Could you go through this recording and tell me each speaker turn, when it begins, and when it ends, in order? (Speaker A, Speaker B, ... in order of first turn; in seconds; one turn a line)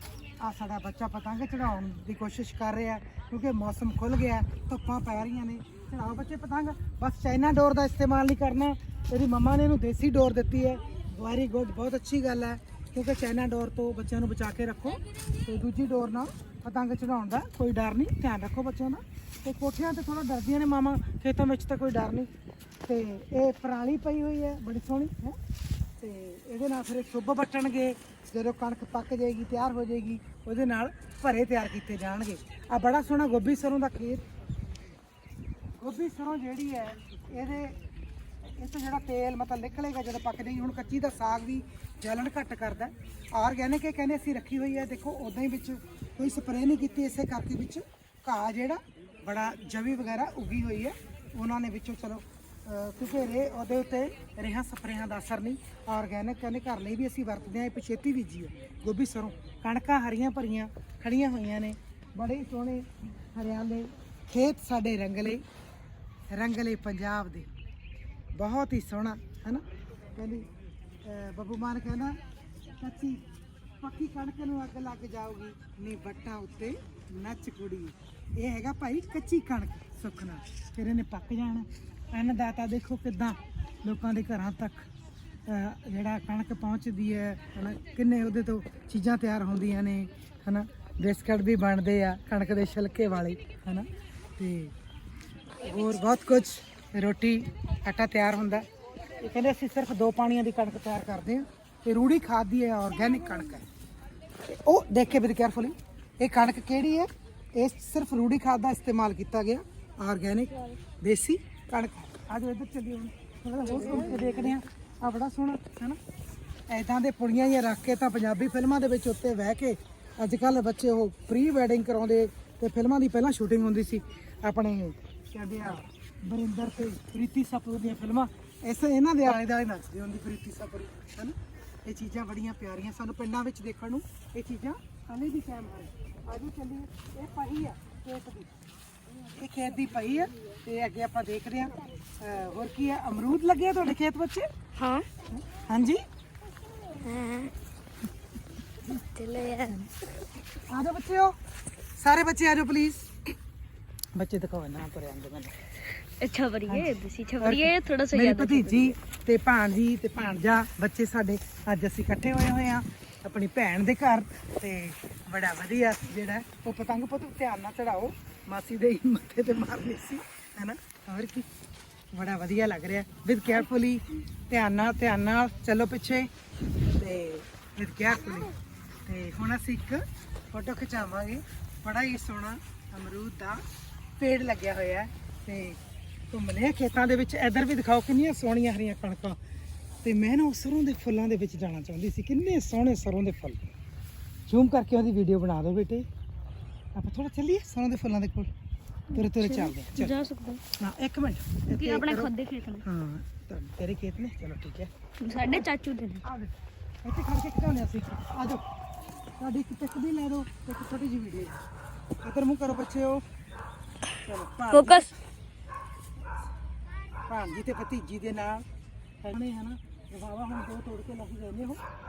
Speaker A: 0.4-22.3
Speaker A: 22.8-25.4
Speaker A: 26.0-34.2
Speaker A: 35.8-37.8
Speaker A: 38.6-65.4
Speaker A: 66.3-67.5
Speaker A: 68.3-69.6
Speaker A: 70.1-70.5
Speaker A: 71.0-72.2
Speaker A: 72.8-84.9
Speaker A: 85.5-94.7
Speaker A: 95.6-98.7
Speaker A: 99.2-103.7
Speaker A: 104.4-116.0
Speaker B: 113.9-114.3
Speaker A: 116.7-138.5
Speaker A: 139.3-144.5
Speaker B: 144.8-145.1
Speaker A: 145.3-146.0
Speaker B: 147.0-147.5
Speaker B: 148.9-149.9
Speaker A: 150.7-151.4
Speaker A: 152.0-153.1
Speaker A: 154.1-155.6
Speaker B: 156.2-158.9
Speaker A: 156.7-171.5
Speaker A: 172.1-176.3
Speaker A: 176.9-178.5
Speaker A: 179.1-183.6
Speaker A: 184.2-185.8
Speaker A: 186.3-189.4
Speaker A: 190.0-193.6
Speaker A: 194.5-196.1
Speaker A: 196.9-198.5
Speaker B: 199.1-200.6
Speaker A: 199.1-200.2
Speaker A: 200.8-202.3
Speaker B: 201.7-202.8
Speaker A: 202.8-204.9
Speaker B: 205.2-206.2
Speaker A: 206.2-206.5
Speaker A: 207.0-208.6
Speaker A: 209.4-211.5
Speaker A: 212.2-213.2
Speaker A: 214.2-215.2
Speaker B: 214.7-215.1
Speaker A: 217.3-218.7
Speaker A: 219.2-221.8